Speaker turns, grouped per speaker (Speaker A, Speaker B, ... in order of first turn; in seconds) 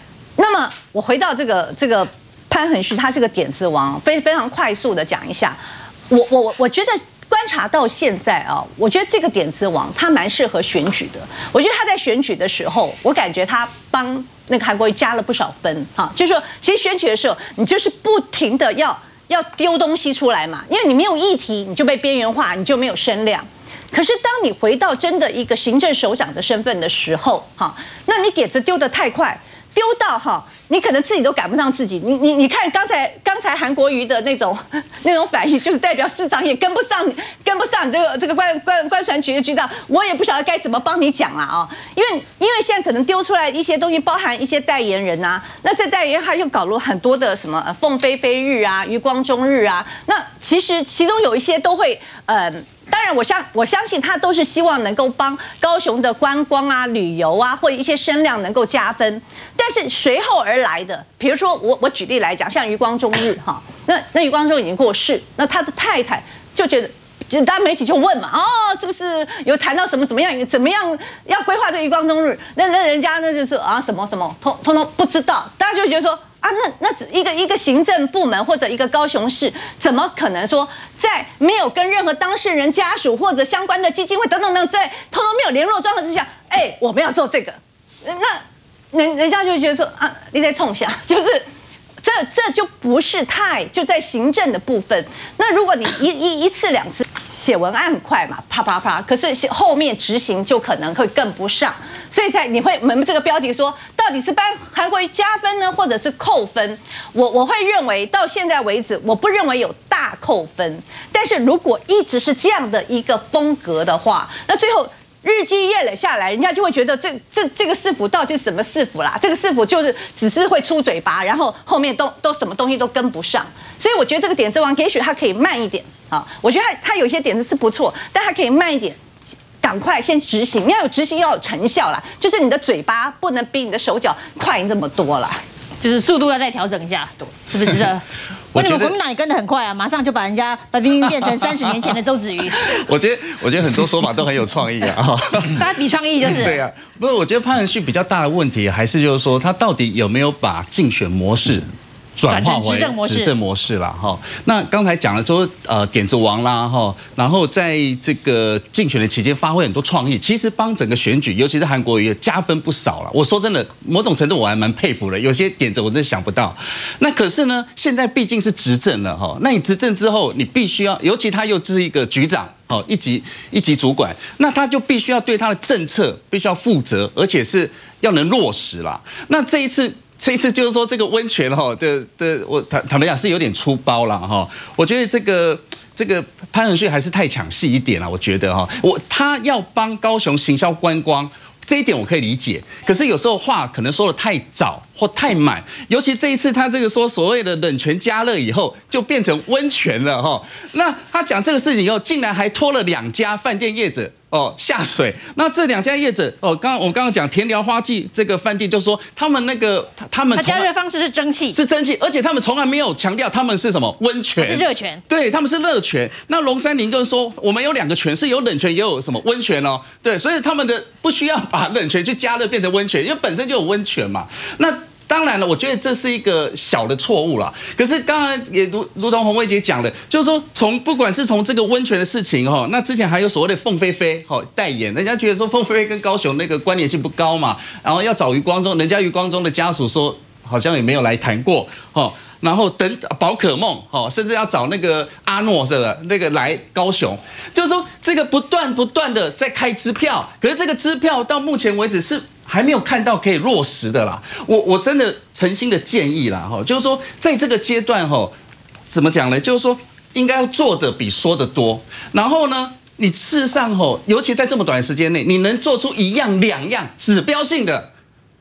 Speaker A: 0.4-91.4, 92.0-129.0, 129.6-135.4
Speaker B: 135.8-138.0, 138.6-142.7, 145.5-146.6, 152.3-153.3, 210.4-211.6, 214.4-215.0
Speaker C: 138.5-138.9, 142.6-145.7, 146.2-210.7, 211.5-258.3, 258.9-267.9